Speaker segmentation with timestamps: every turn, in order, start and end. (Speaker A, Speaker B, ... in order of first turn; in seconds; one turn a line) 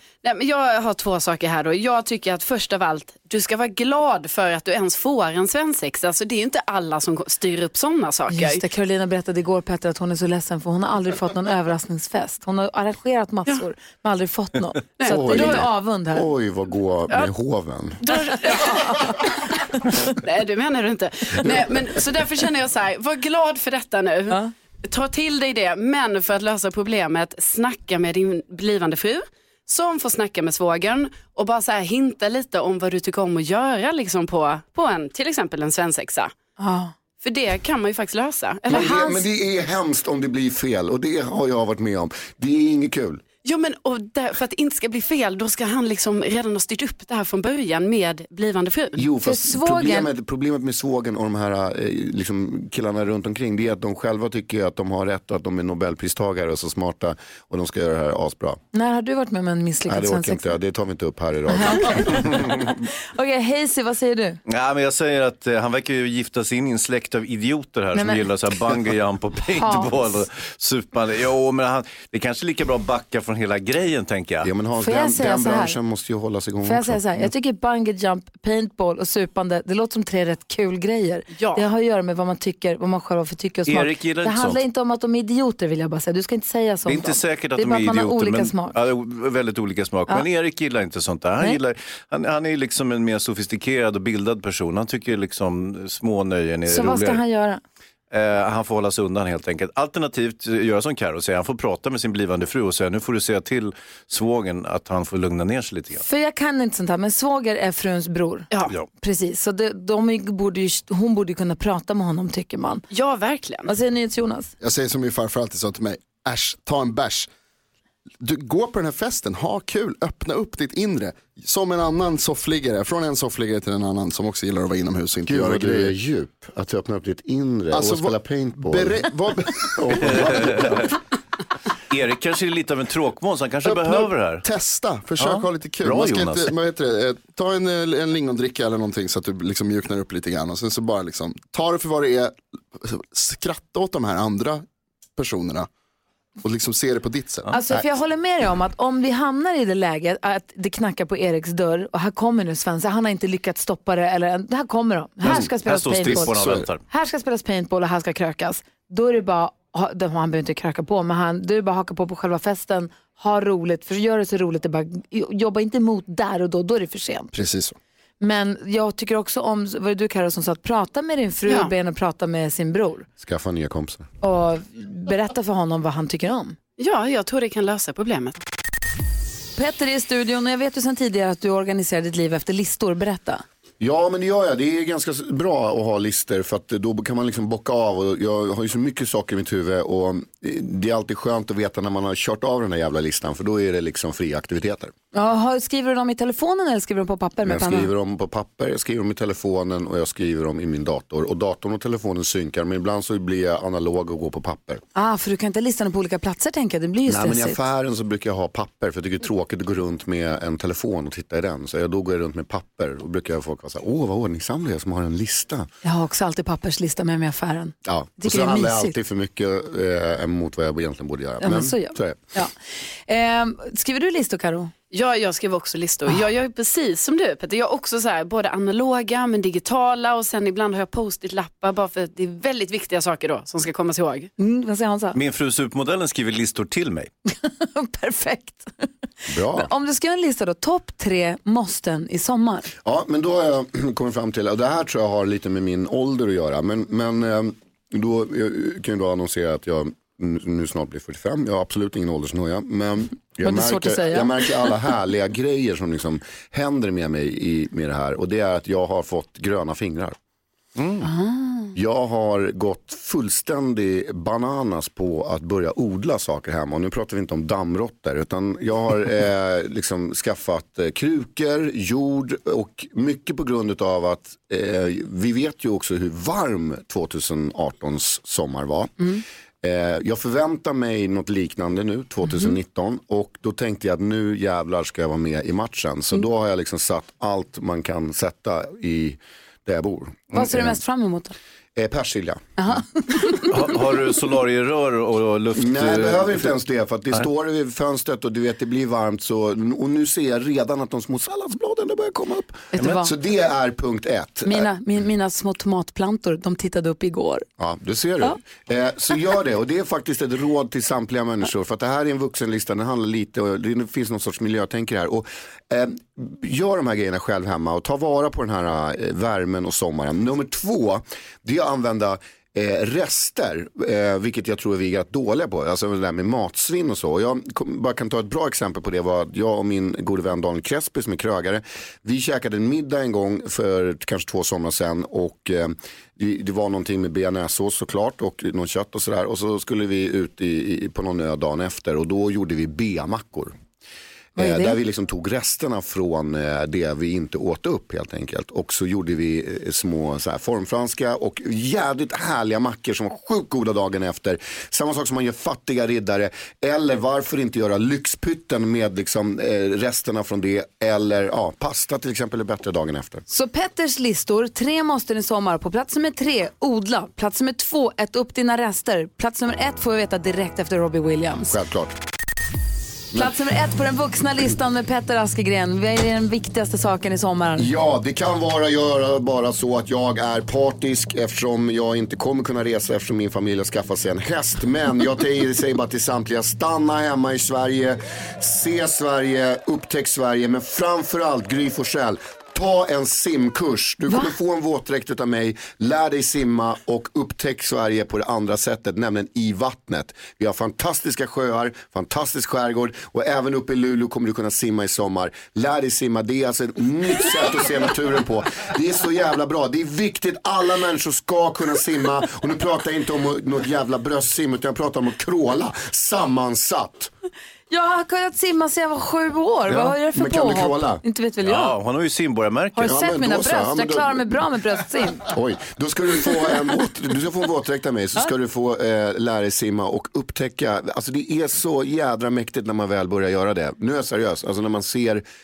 Speaker A: 0.2-8.6
Speaker B: 8.3-16.2
Speaker A: 15.0-15.6
Speaker C: 15.1-18.0
Speaker A: 18.0-36.3
Speaker B: 18.6-19.1
Speaker B: 36.6-36.9
Speaker A: 37.2-39.2
Speaker C: 38.7-43.2
Speaker A: 43.4-49.1
Speaker C: 49.0-58.6
Speaker B: 49.2-50.1
Speaker B: 58.7-60.5
Speaker C: 59.9-62.2
Speaker B: 61.5-64.4
Speaker D: 64.5-74.5
Speaker B: 67.9-68.3
Speaker B: 69.5-70.1
Speaker C: 74.4-77.3
Speaker B: 74.8-75.8
Speaker B: 76.6-88.8
Speaker A: 81.3-81.6
Speaker D: 83.7-84.6
Speaker D: 86.8-97.2
Speaker B: 96.7-97.6
Speaker D: 98.1-106.0
Speaker B: 106.0-112.9
Speaker A: 112.9-113.7
Speaker B: 113.7-114.5
Speaker E: 114.6-117.3
Speaker E: 118.2-125.9
Speaker C: 125.3-129.0
Speaker E: 127.7-130.9
Speaker C: 129.8-130.7
Speaker D: 130.1-130.8
Speaker D: 131.9-134.4
Speaker E: 133.6-144.6
Speaker D: 135.2-136.5
Speaker E: 145.2-145.7
Speaker E: 146.4-147.5
Speaker B: 147.5-156.3
Speaker D: 155.2-156.8
Speaker E: 156.0-156.7
Speaker B: 156.9-167.3
Speaker E: 167.3-167.8
Speaker B: 168.2-173.1
Speaker C: 173.2-174.1
Speaker B: 174.2-176.6
Speaker A: 176.8-178.4
Speaker B: 179.6-183.4
Speaker C: 183.8-194.9
Speaker B: 195.1-197.9
Speaker C: 197.4-204.8
Speaker B: 204.9-207.6
Speaker C: 207.1-215.7
Speaker B: 215.8-218.9
Speaker C: 217.8-222.2
Speaker B: 221.4-222.5
Speaker B: 223.1-224.7
Speaker A: 224.9-234.3
Speaker B: 234.4-235.2
Speaker D: 235.1-237.1
Speaker B: 237.2-238.7
Speaker C: 239.3-239.7
Speaker B: 239.5-242.7
Speaker C: 242.8-260.1
Speaker B: 253.4-254.4
Speaker D: 260.8-261.1
Speaker B: 261.0-261.7
Speaker C: 261.7-290.8
Speaker B: 290.3-291.4
Speaker C: 291.8-292.4
Speaker B: 292.6-293.5
Speaker D: 293.5-296.5
Speaker C: 295.5-304.7
Speaker B: 302.7-303.1
Speaker B: 304.4-307.4
Speaker C: 307.6-343.5
Speaker B: 344.4-344.8
Speaker C: 344.4-363.2
Speaker B: 363.3-371.5
Speaker C: 371.5-371.9
Speaker B: 373.1-377.7
Speaker C: 377.6-417.1
Speaker B: 417.7-421.7
Speaker C: 419.7-421.0
Speaker D: 421.4-422.9
Speaker B: 422.8-425.3
Speaker C: 422.8-424.4
Speaker C: 425.2-435.2